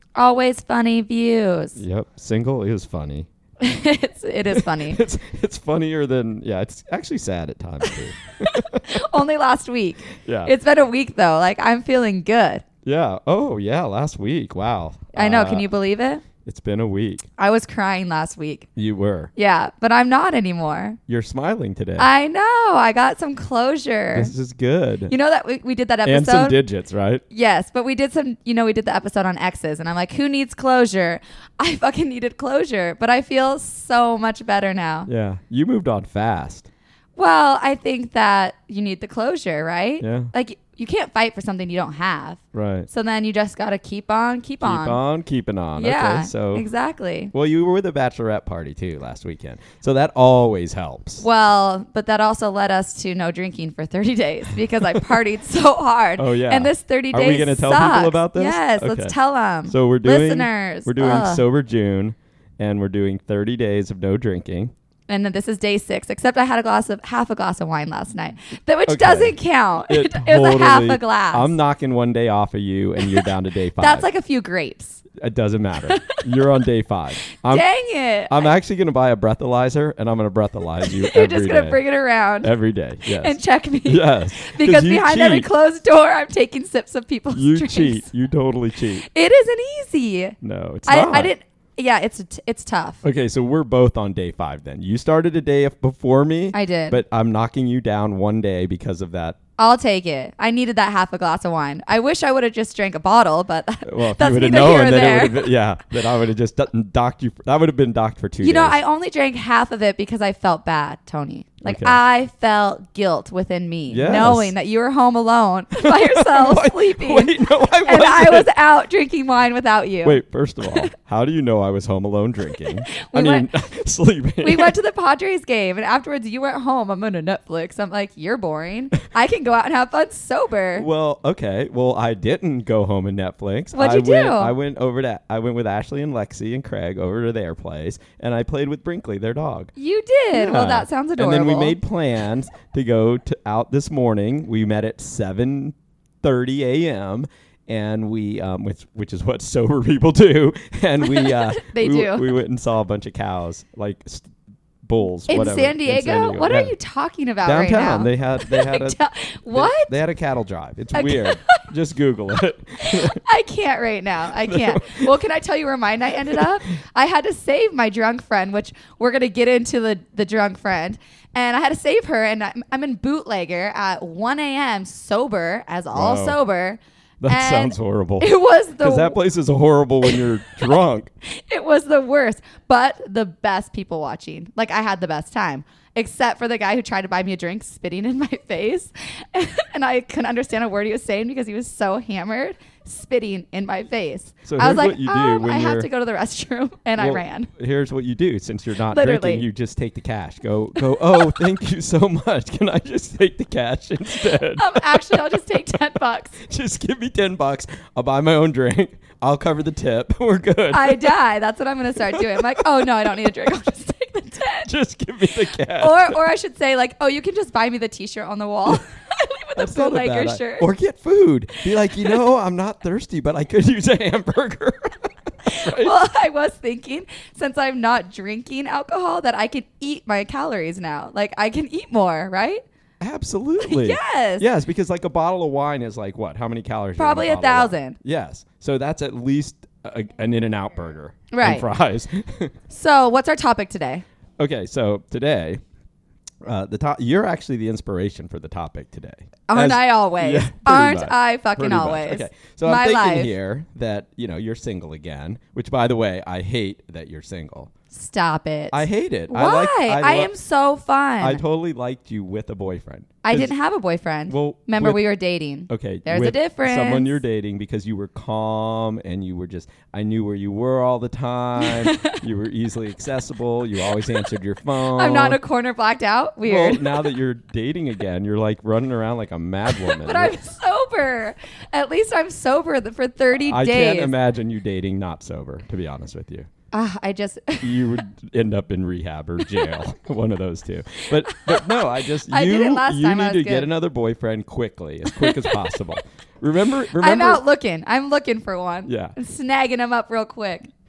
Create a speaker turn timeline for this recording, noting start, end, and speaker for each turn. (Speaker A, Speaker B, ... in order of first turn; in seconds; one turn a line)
Speaker A: 0.1-1.8
Speaker B: 1.8-3.3
Speaker A: 3.6-5.0
Speaker B: 4.5-9.0
Speaker A: 8.8-12.7
Speaker B: 10.2-10.5
Speaker B: 12.8-15.7
Speaker A: 15.1-16.2
Speaker B: 16.4-17.3
Speaker A: 17.4-18.7
Speaker B: 18.8-19.3
Speaker A: 19.4-21.0
Speaker B: 21.1-22.1
Speaker A: 22.0-24.3
Speaker B: 24.1-25.1
Speaker A: 25.1-26.6
Speaker B: 26.1-27.2
Speaker A: 27.3-35.1
Speaker B: 35.1-36.7
Speaker A: 37.2-45.0
Speaker B: 40.0-40.3
Speaker B: 42.5-42.9
Speaker B: 44.6-46.7
Speaker A: 45.8-47.3
Speaker B: 47.3-51.2
Speaker A: 51.2-61.4
Speaker B: 56.2-59.1
Speaker B: 59.7-64.7
Speaker A: 65.1-71.5
Speaker B: 68.9-69.4
Speaker B: 69.9-74.1
Speaker A: 73.8-75.0
Speaker B: 75.2-77.7
Speaker A: 75.9-76.2
Speaker A: 77.4-78.5
Speaker B: 78.3-81.8
Speaker A: 80.8-82.5
Speaker B: 82.4-85.5
Speaker A: 83.1-88.0
Speaker B: 87.3-89.1
Speaker A: 89.0-93.0
Speaker B: 90.4-91.3
Speaker B: 93.0-99.4
Speaker A: 96.5-97.0
Speaker A: 99.6-105.5
Speaker B: 103.8-108.8
Speaker A: 108.4-120.9
Speaker B: 111.7-112.0
Speaker B: 113.9-114.5
Speaker B: 115.8-118.5
Speaker B: 120.0-124.8
Speaker A: 123.0-123.5
Speaker A: 124.4-130.9
Speaker B: 130.8-139.7
Speaker A: 133.7-134.5
Speaker A: 139.8-141.8
Speaker B: 140.3-156.7
Speaker A: 151.0-152.3
Speaker A: 155.3-159.9
Speaker B: 157.4-159.0
Speaker B: 159.5-163.2
Speaker A: 160.9-161.7
Speaker A: 162.8-179.2
Speaker B: 164.4-165.1
Speaker B: 166.2-166.5
Speaker B: 175.9-176.4
Speaker B: 177.2-178.3
Speaker B: 178.8-181.1
Speaker A: 181.5-197.5
Speaker B: 194.4-195.9
Speaker B: 197.0-205.2
Speaker A: 198.9-199.4
Speaker A: 204.6-206.4
Speaker B: 206.4-211.2
Speaker A: 210.7-214.7
Speaker B: 212.1-213.5
Speaker B: 214.7-216.2
Speaker A: 215.8-220.7
Speaker B: 219.6-225.9
Speaker A: 225.5-232.6
Speaker B: 233.0-242.5
Speaker A: 233.6-234.5
Speaker A: 237.0-238.0
Speaker A: 241.3-241.7
Speaker A: 242.7-244.0
Speaker B: 244.4-245.6
Speaker B: 246.4-257.7
Speaker A: 249.5-253.3
Speaker A: 257.9-261.4
Speaker B: 258.7-260.3
Speaker B: 261.2-263.6
Speaker A: 263.2-267.2
Speaker B: 264.3-265.0
Speaker B: 265.7-275.4
Speaker A: 271.6-272.2
Speaker A: 274.8-277.1
Speaker B: 276.5-280.4
Speaker A: 279.7-284.1
Speaker B: 283.5-286.5
Speaker A: 286.7-287.9
Speaker B: 287.6-297.4
Speaker A: 291.3-293.7
Speaker A: 295.1-295.8
Speaker A: 296.9-300.7
Speaker B: 298.9-299.1